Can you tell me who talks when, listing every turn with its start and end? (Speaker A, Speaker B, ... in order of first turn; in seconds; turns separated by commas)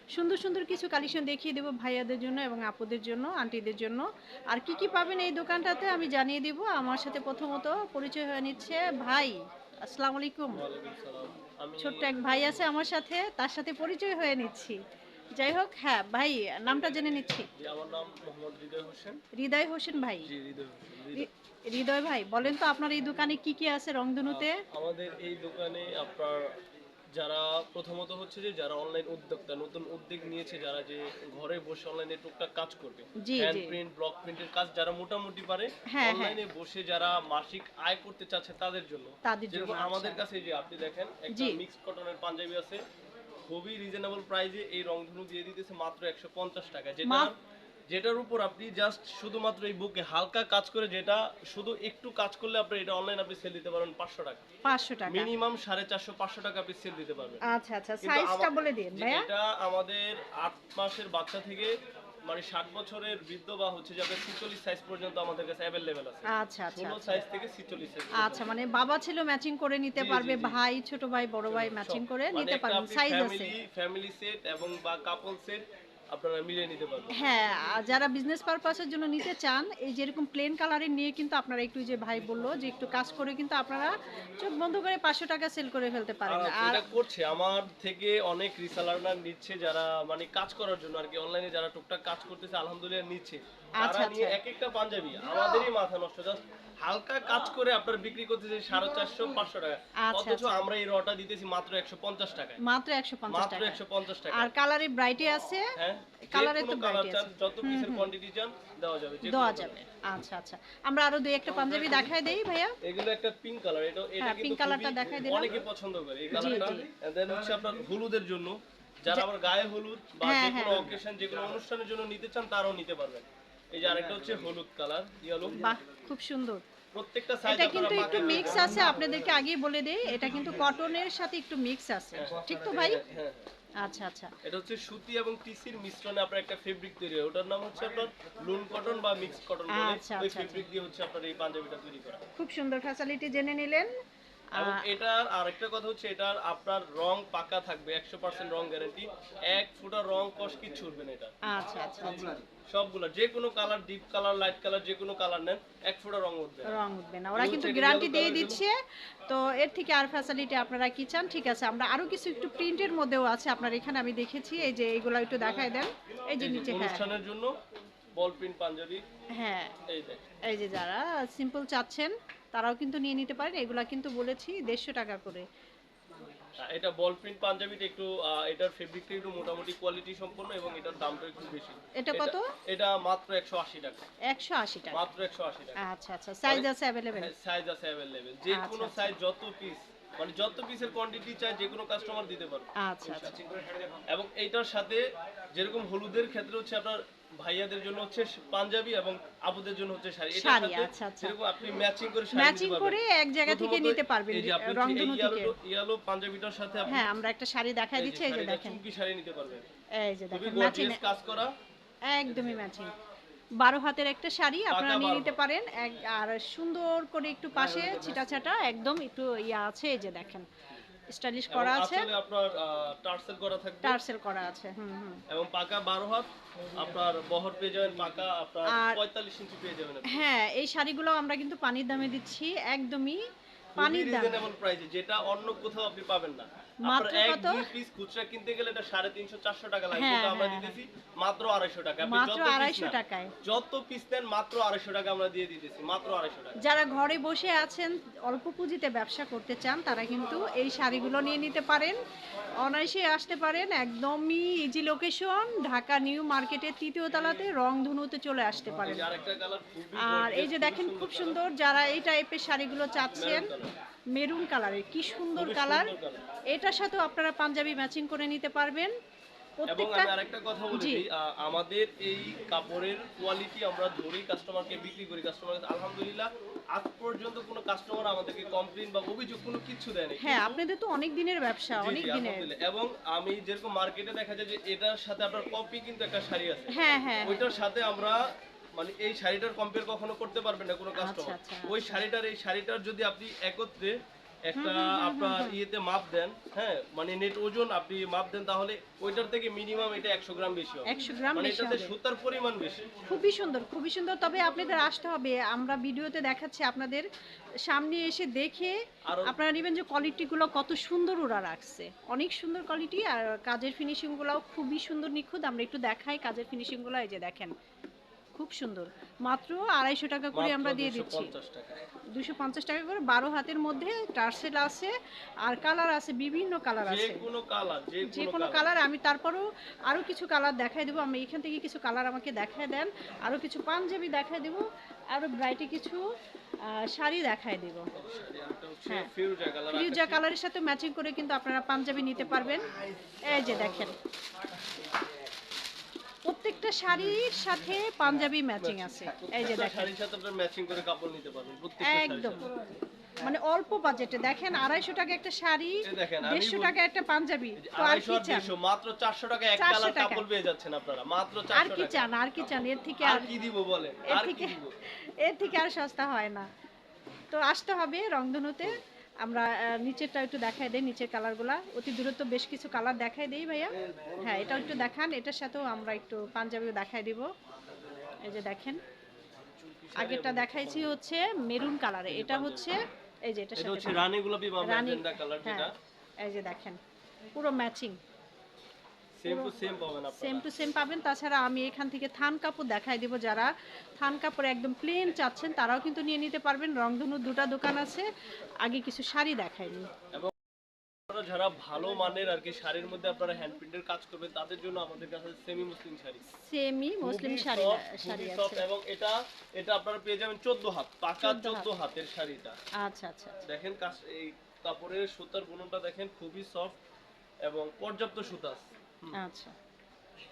Speaker A: 0.1-10.7, Speaker B: 10.5-12.5, Speaker A: 11.8-14.8, Speaker A: 15.4-17.5, Speaker B: 17.5-19.2, Speaker A: 19.3-20.3, Speaker B: 20.2-21.3, Speaker A: 21.1-24.6, Speaker B: 24.2-26.6, Speaker B: 27.1-42.8, Speaker A: 33.2-33.8, Speaker A: 35.9-36.4, Speaker A: 39.2-40.2, Speaker A: 41.3-41.6, Speaker B: 43.5-47.3, Speaker A: 47.0-47.3, Speaker B: 47.9-54.4, Speaker A: 54.6-55.3, Speaker B: 55.1-57.4, Speaker A: 57.4-59.3, Speaker B: 58.0-61.8, Speaker B: 62.3-68.5, Speaker A: 66.3-67.2, Speaker A: 68.2-73.5, Speaker B: 70.0-70.6, Speaker B: 71.5-77.1, Speaker A: 77.1-86.9, Speaker B: 86.3-102.6, Speaker A: 93.8-94.4, Speaker A: 100.0-100.7, Speaker A: 102.6-105.7, Speaker B: 103.3-104.5, Speaker B: 105.8-109.8, Speaker A: 106.3-108.1, Speaker A: 109.2-112.8, Speaker B: 111.6-112.2, Speaker B: 112.8-125.6, Speaker A: 114.2-115.6, Speaker A: 116.3-116.9, Speaker A: 120.2-120.9, Speaker A: 125.6-126.6, Speaker B: 126.9-129.0, Speaker A: 127.5-133.0, Speaker B: 132.1-133.5, Speaker A: 133.8-134.3, Speaker B: 134.4-142.2, Speaker A: 139.7-140.6, Speaker A: 142.4-143.9, Speaker A: 144.5-144.9, Speaker B: 144.6-151.3, Speaker A: 151.5-152.4, Speaker B: 152.2-156.7, Speaker A: 156.7-167.1, Speaker B: 157.3-158.6, Speaker B: 166.4-167.5, Speaker B: 168.2-169.0, Speaker A: 169.4-169.7, Speaker B: 169.9-170.2, Speaker A: 170.5-175.4, Speaker B: 176.6-184.1, Speaker A: 182.0-182.5, Speaker A: 184.3-185.0, Speaker B: 184.9-185.8, Speaker A: 185.8-187.3, Speaker B: 186.5-193.4, Speaker A: 188.5-189.2, Speaker A: 192.8-193.4, Speaker B: 194.1-207.1, Speaker A: 200.3-201.4, Speaker A: 202.3-205.5, Speaker A: 206.9-208.8, Speaker B: 208.0-209.7, Speaker A: 210.0-211.0, Speaker B: 210.3-211.5, Speaker A: 212.1-212.9, Speaker A: 213.6-220.5, Speaker B: 214.7-215.4, Speaker A: 221.1-222.1, Speaker B: 221.5-224.0, Speaker A: 223.8-225.2, Speaker B: 225.3-230.2, Speaker A: 228.7-229.0, Speaker A: 230.1-233.2, Speaker B: 233.8-246.6, Speaker A: 233.8-234.4, Speaker A: 236.8-237.7, Speaker A: 239.9-240.8, Speaker A: 242.1-243.3, Speaker A: 246.6-252.0, Speaker A: 252.6-259.1, Speaker B: 258.7-261.4, Speaker A: 260.0-263.5, Speaker B: 263.1-263.7, Speaker A: 264.1-265.9, Speaker B: 265.4-266.2, Speaker A: 266.5-268.9, Speaker A: 269.6-270.1, Speaker B: 269.7-280.6, Speaker A: 270.7-271.1, Speaker A: 280.2-282.5, Speaker B: 281.8-288.2, Speaker A: 286.7-287.5, Speaker B: 288.8-294.0, Speaker A: 291.0-292.0, Speaker B: 294.5-302.9, Speaker A: 294.6-295.6, Speaker A: 300.9-301.9, Speaker A: 303.1-307.1, Speaker A: 307.7-317.5, Speaker B: 309.1-309.4, Speaker A: 318.4-321.3, Speaker B: 320.3-321.8, Speaker A: 322.1-324.9, Speaker A: 325.4-327.3, Speaker B: 326.9-328.7, Speaker A: 328.0-336.0, Speaker A: 336.6-337.9, Speaker B: 337.9-340.2, Speaker A: 339.7-342.6, Speaker A: 343.3-343.9, Speaker A: 346.2-349.9, Speaker B: 348.1-352.5, Speaker A: 351.8-352.5, Speaker A: 353.2-358.6, Speaker B: 355.9-356.8, Speaker B: 357.6-364.8, Speaker A: 359.6-360.3, Speaker A: 361.5-363.3, Speaker A: 364.1-364.6, Speaker A: 365.2-366.5, Speaker A: 367.3-377.3, Speaker B: 374.0-374.3, Speaker A: 378.2-378.8, Speaker B: 379.6-381.0, Speaker A: 380.0-384.0, Speaker B: 382.1-382.8, Speaker B: 383.6-385.7, Speaker A: 384.6-385.7, Speaker A: 386.2-386.8, Speaker A: 387.4-388.0, Speaker B: 389.2-390.5, Speaker A: 389.2-389.5, Speaker A: 390.1-398.1, Speaker A: 398.6-399.9, Speaker B: 401.1-406.2, Speaker A: 406.3-408.6, Speaker B: 407.0-412.6, Speaker A: 411.2-411.7, Speaker A: 412.8-413.4, Speaker B: 413.4-416.8, Speaker B: 417.4-419.2, Speaker A: 419.1-419.6